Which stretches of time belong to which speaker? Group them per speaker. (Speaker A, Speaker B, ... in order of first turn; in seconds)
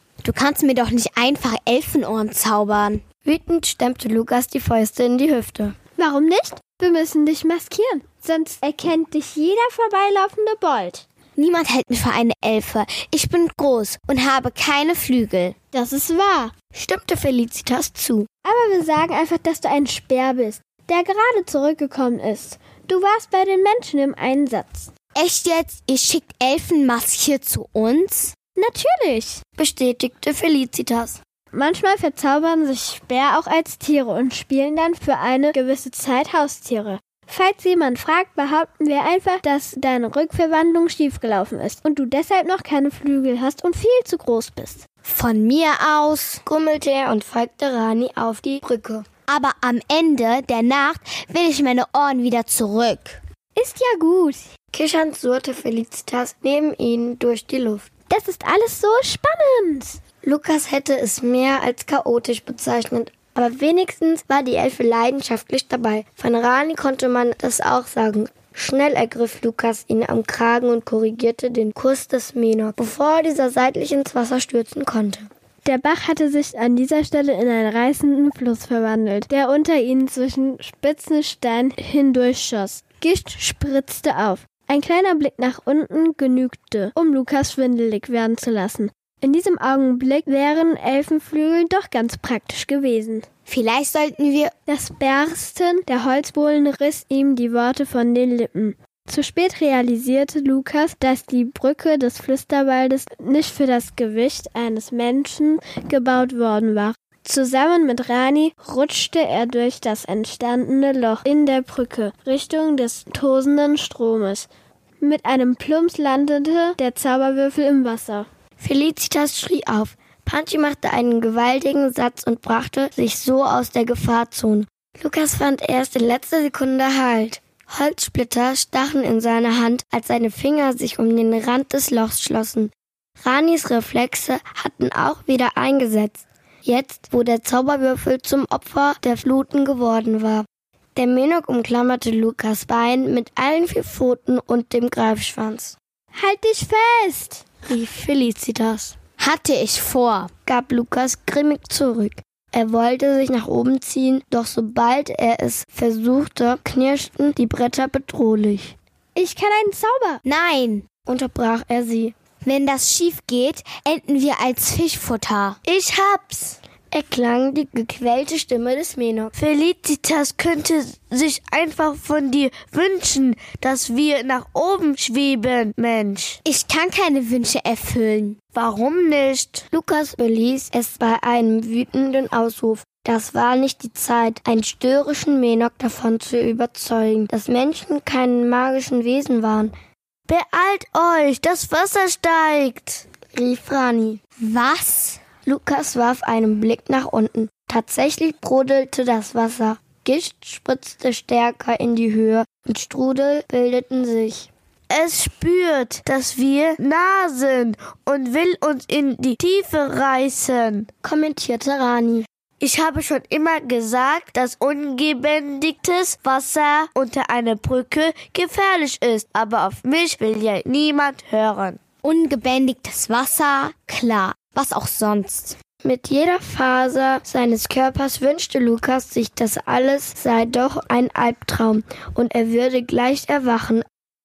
Speaker A: 0.2-3.0, 11.4-15.6, 25.1-28.3, 45.0-46.4, 49.3-53.2, 93.5-94.5, 149.2-150.3, 160.2-160.8, 162.4-165.6, 176.4-178.4, 194.4-195.2, 222.0-225.6
Speaker B: 3.2-5.8, 16.7-18.3, 29.6-31.2, 46.4-49.0, 54.7-57.9, 60.2-75.3, 118.6-145.8, 147.7-148.9, 150.4-158.8, 161.1-162.1, 166.9-169.3, 179.7-189.7, 193.3-194.2, 195.4-204.5, 211.0-212.3, 225.8-233.8
Speaker C: 6.0-11.1, 15.7-16.5, 18.4-24.9, 28.6-29.4, 31.5-44.8, 53.5-54.5, 58.1-60.0, 75.6-93.2, 94.7-114.5, 115.0-118.3, 146.1-147.4, 159.1-160.2
Speaker D: 165.6-166.6, 169.3-176.4, 178.5-179.6, 190.3-193.0, 204.9-210.9, 212.6-221.8